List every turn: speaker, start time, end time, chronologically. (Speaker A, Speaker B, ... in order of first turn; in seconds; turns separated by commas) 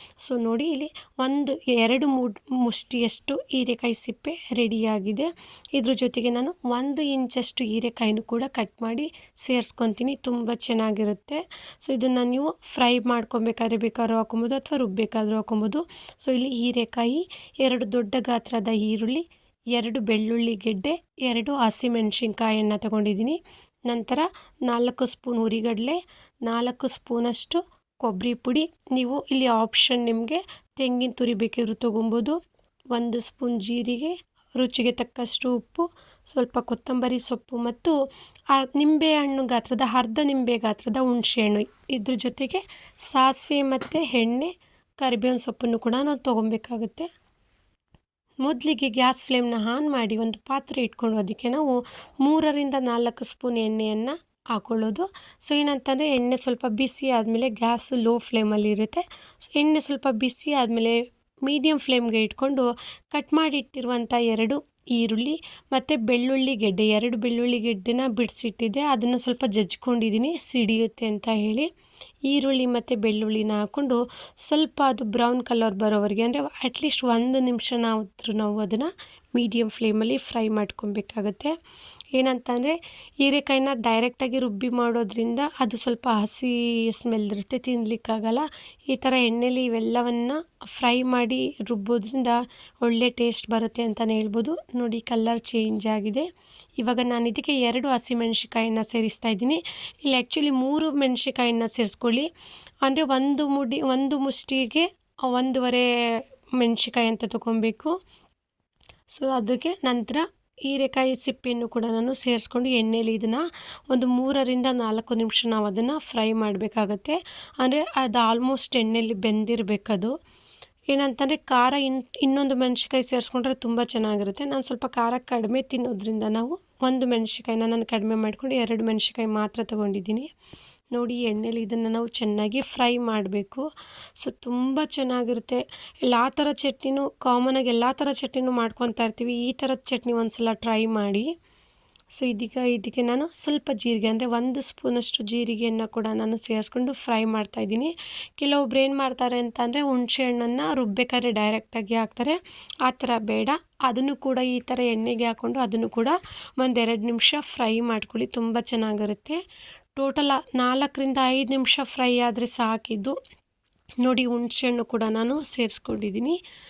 Speaker A: 0.2-32.4, Speaker A: 32.9-38.0, Speaker A: 38.5-47.1, Speaker A: 48.4-71.7, Speaker A: 72.3-81.5, Speaker A: 82.1-96.3, Speaker A: 96.8-102.3, Speaker A: 102.8-108.0, Speaker A: 109.1-120.1, Speaker A: 120.9-130.3, Speaker A: 130.9-133.7, Speaker A: 134.2-141.3, Speaker A: 142.2-159.4, Speaker A: 160.0-163.2, Speaker A: 164.0-166.4